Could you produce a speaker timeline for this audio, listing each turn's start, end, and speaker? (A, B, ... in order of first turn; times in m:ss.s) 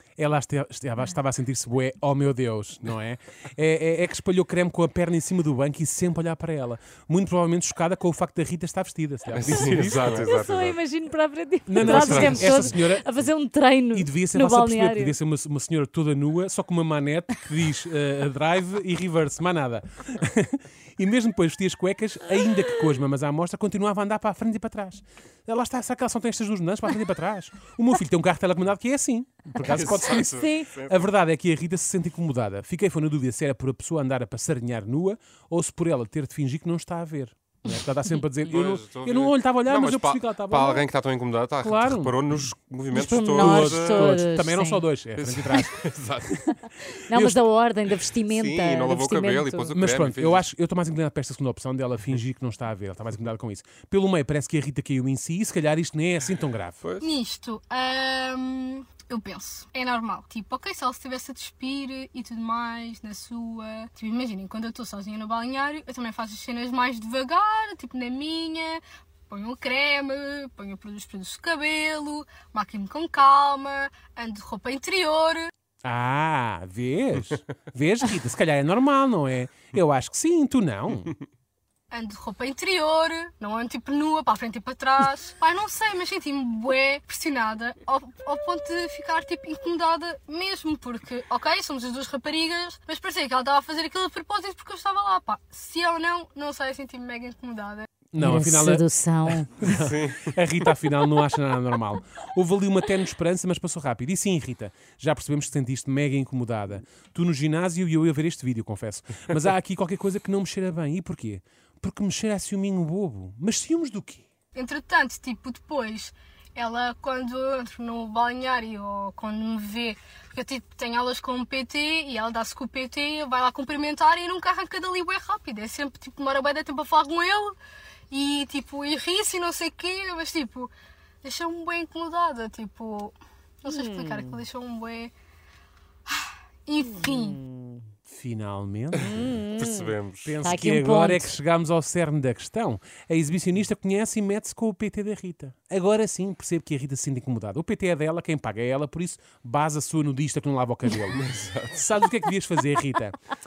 0:00.2-0:10.3 A
0:09.3-0:10.8 B
0:09.6-0:15.2 C
0:11.7-0:13.1 A
0:11.9-0:12.7 B
0:13.9-0:40.9 A
0:29.6-0:31.0 B
0:29.8-0:30.7 C
0:38.5-0:44.1 B
0:41.6-0:42.5 A
0:42.9-0:44.8 C
0:43.4-0:46.6 A
0:45.2-0:46.3 B
0:47.0-0:49.7 C
0:47.1-0:47.4 A
0:48.3-0:50.4 B
0:49.8-0:56.8 A
0:56.8-0:57.1 B
0:57.0-1:15.5 D
1:15.8-1:21.2 A
1:21.9-1:37.9 D
1:38.1-1:54.3 A
1:38.2-1:39.5 C
1:39.7-1:40.4 B
1:54.5-2:07.6 D
2:08.1-2:10.7 D
2:11.2-2:15.1 D
2:13.7-2:14.4 C
2:16.7-2:17.4 D
2:17.0-2:17.8 C
2:18.1-2:19.4 A
2:19.0-2:21.3 C
2:19.5-2:20.4 B
2:20.2-2:33.2 A
2:31.2-2:31.7 B